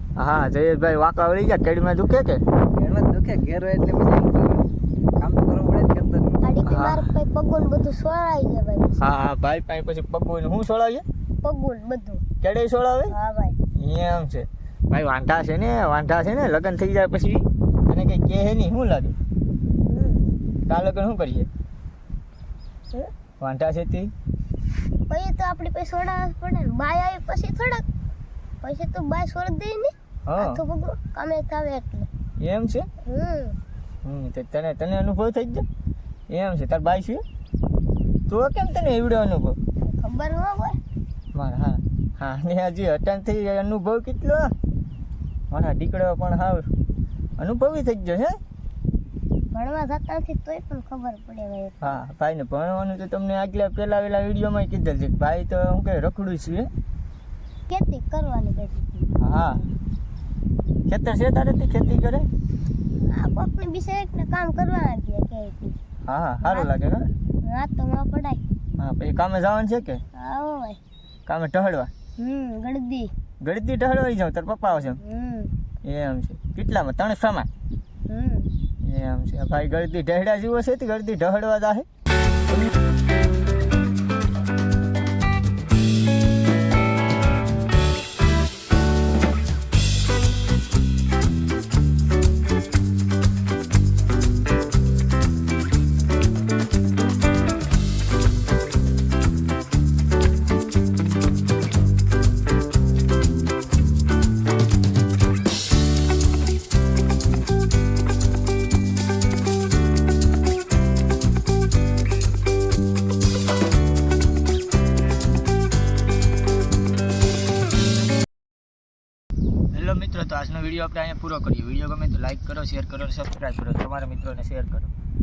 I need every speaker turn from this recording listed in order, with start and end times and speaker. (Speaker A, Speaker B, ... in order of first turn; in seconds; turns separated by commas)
Speaker A: 0.1-2.4, Speaker B: 2.7-6.4, Speaker C: 6.4-8.9, Speaker A: 6.6-7.1, Speaker A: 8.9-11.0, Speaker C: 11.4-12.2, Speaker A: 12.4-13.1, Speaker C: 13.1-13.6, Speaker A: 13.7-19.1, Speaker C: 19.8-20.3, Speaker A: 20.7-21.5, Speaker A: 23.4-24.1, Speaker C: 25.1-27.9, Speaker C: 28.6-32.1, Speaker A: 30.2-30.6, Speaker A: 32.4-32.9, Speaker C: 33.0-33.6, Speaker A: 34.0-35.6, Speaker A: 36.3-37.2, Speaker A: 38.3-39.6, Speaker C: 39.9-40.8, Speaker A: 41.3-44.5, Speaker A: 45.5-46.7, Speaker A: 47.4-48.4, Speaker C: 49.5-52.0, Speaker A: 51.8-56.7, Speaker C: 57.7-59.1, Speaker A: 59.2-59.7, Speaker A: 60.9-62.3, Speaker C: 63.1-65.8, Speaker A: 66.0-67.1, Speaker C: 66.4-66.7, Speaker C: 67.4-68.4, Speaker A: 68.8-70.0, Speaker C: 70.1-70.8, Speaker A: 71.2-71.9, Speaker C: 72.2-73.1, Speaker A: 73.4-75.0, Speaker C: 75.0-75.5, Speaker A: 75.8-77.5, Speaker C: 78.1-78.5, Speaker A: 78.8-81.9, Speaker A: 119.7-124.9